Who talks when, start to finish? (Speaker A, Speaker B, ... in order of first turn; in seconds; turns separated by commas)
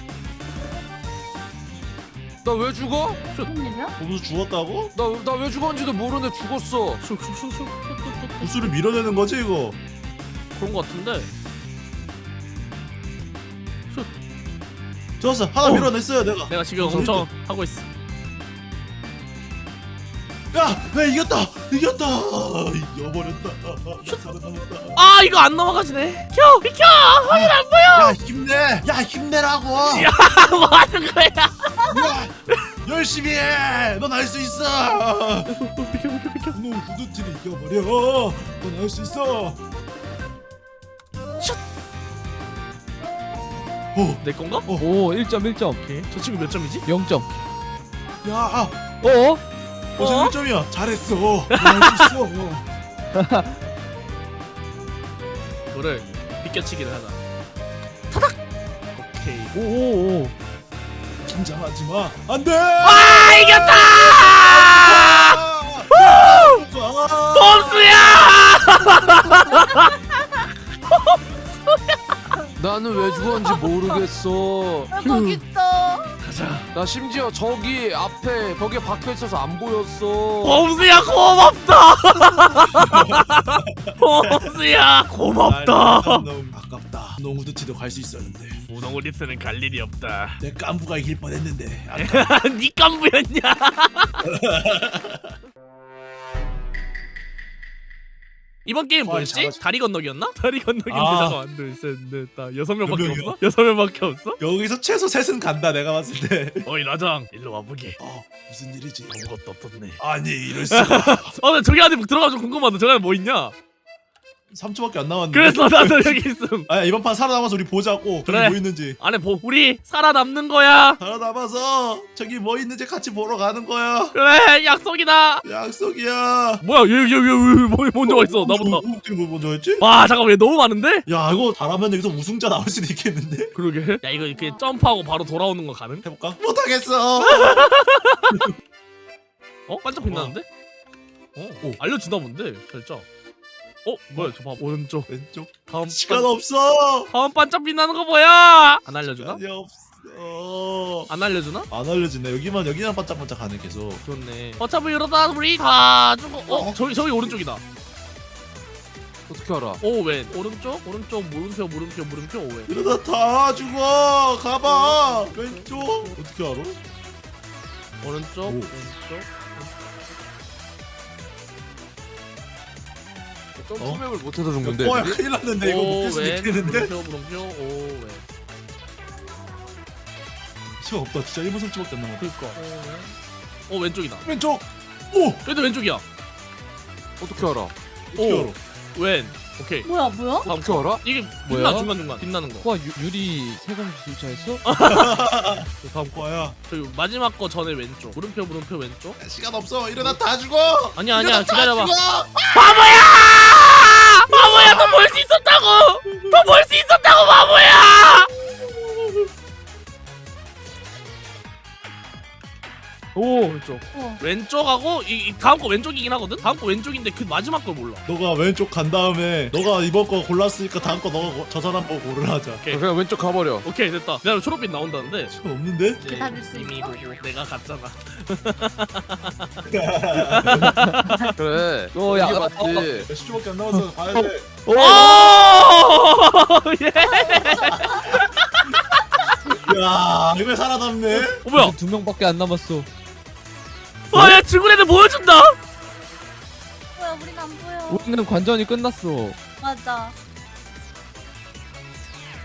Speaker A: 2.4-3.2, Speaker B: 3.4-3.9, Speaker C: 4.0-4.9, Speaker A: 4.9-7.0, Speaker D: 7.0-8.7, Speaker C: 8.4-9.8, Speaker D: 10.6-11.3, Speaker C: 15.2-17.3, Speaker D: 15.6-15.9, Speaker D: 16.4-17.9, Speaker C: 20.5-25.0, Speaker D: 24.9-28.1, Speaker C: 27.2-30.1, Speaker D: 29.8-32.6, Speaker C: 31.9-32.3, Speaker C: 32.8-35.5, Speaker D: 35.5-36.6, Speaker C: 36.5-39.6, Speaker C: 43.9-44.8, Speaker D: 44.2-44.7, Speaker E: 44.8-46.0, Speaker D: 45.8-46.9, Speaker E: 46.8-47.4, Speaker C: 48.2-48.8, Speaker E: 49.0-49.4, Speaker C: 50.0-52.6, Speaker D: 50.0-50.3, Speaker D: 51.5-52.1, Speaker E: 53.1-53.5, Speaker D: 55.7-57.2, Speaker D: 58.9-59.5, Speaker E: 59.5-60.3, Speaker C: 61.2-68.0, Speaker D: 62.8-65.4, Speaker D: 65.9-66.5, Speaker D: 67.3-69.9, Speaker B: 69.2-69.6, Speaker D: 70.9-72.0, Speaker A: 72.6-74.9, Speaker B: 73.0-73.4, Speaker B: 74.9-76.2, Speaker D: 75.0-75.4, Speaker D: 76.2-76.7, Speaker A: 76.7-80.6, Speaker D: 80.4-86.3, Speaker C: 82.7-84.5, Speaker C: 85.4-88.6, Speaker D: 88.7-90.4, Speaker C: 90.4-92.3, Speaker D: 91.9-94.2, Speaker C: 94.2-95.3, Speaker D: 98.6-104.4, Speaker C: 99.0-99.6, Speaker C: 100.9-101.4, Speaker C: 102.8-103.4, Speaker C: 104.4-106.7, Speaker D: 106.6-108.0, Speaker C: 108.0-109.1, Speaker D: 109.1-110.0, Speaker C: 110.0-111.3, Speaker D: 110.7-113.5, Speaker C: 114.5-119.0, Speaker D: 115.3-116.7, Speaker D: 118.2-121.0, Speaker C: 121.0-124.1, Speaker D: 124.1-125.4, Speaker C: 125.4-126.6, Speaker D: 126.6-128.8, Speaker C: 128.0-129.8, Speaker D: 129.8-131.1, Speaker C: 131.1-133.5, Speaker D: 133.5-136.0, Speaker B: 134.3-134.6, Speaker C: 136.0-137.7, Speaker D: 137.2-138.5, Speaker D: 139.7-140.4, Speaker C: 140.0-140.3, Speaker D: 141.3-143.0, Speaker D: 143.8-145.1, Speaker C: 145.1-147.1, Speaker D: 145.7-146.3, Speaker D: 147.1-149.4, Speaker C: 149.0-151.1, Speaker D: 151.1-151.7, Speaker C: 151.7-154.0, Speaker D: 154.0-157.6, Speaker C: 156.5-157.4, Speaker A: 159.3-159.8, Speaker D: 159.8-162.7, Speaker C: 162.7-166.8, Speaker D: 164.6-166.2, Speaker D: 168.0-169.7, Speaker C: 168.4-168.7, Speaker A: 173.6-175.2, Speaker C: 173.8-174.0, Speaker C: 174.6-176.9, Speaker D: 175.6-178.2, Speaker C: 180.8-182.3, Speaker D: 182.2-183.1, Speaker D: 183.7-184.3, Speaker C: 184.2-185.4, Speaker D: 185.4-186.0, Speaker A: 187.2-187.7, Speaker C: 188.1-188.6, Speaker D: 188.2-192.7, Speaker B: 189.8-190.5, Speaker A: 190.4-191.0, Speaker E: 191.5-191.9, Speaker E: 192.6-194.6, Speaker D: 194.6-195.2, Speaker C: 194.8-196.6, Speaker D: 195.8-199.2, Speaker C: 199.2-202.8, Speaker D: 200.9-201.9, Speaker D: 202.5-208.3, Speaker C: 204.3-205.0, Speaker C: 206.1-206.4, Speaker C: 208.6-209.2, Speaker E: 213.1-213.6, Speaker D: 213.4-218.0, Speaker B: 213.9-214.2, Speaker C: 218.1-222.6, Speaker D: 222.6-222.8, Speaker A: 222.7-223.7, Speaker D: 223.6-225.3, Speaker C: 225.3-226.0, Speaker D: 226.0-229.5, Speaker B: 226.0-226.9, Speaker C: 229.7-230.9, Speaker D: 230.4-231.3, Speaker E: 230.4-231.2, Speaker A: 231.4-233.1, Speaker E: 231.9-233.1, Speaker C: 232.7-234.5, Speaker E: 234.0-235.5, Speaker D: 234.7-239.3, Speaker B: 237.0-238.0, Speaker C: 237.6-238.2, Speaker C: 239.5-241.4, Speaker D: 241.3-241.8, Speaker E: 241.5-242.9, Speaker D: 244.1-245.6, Speaker E: 244.1-244.4, Speaker B: 247.0-248.2, Speaker E: 247.9-249.4, Speaker B: 249.6-250.1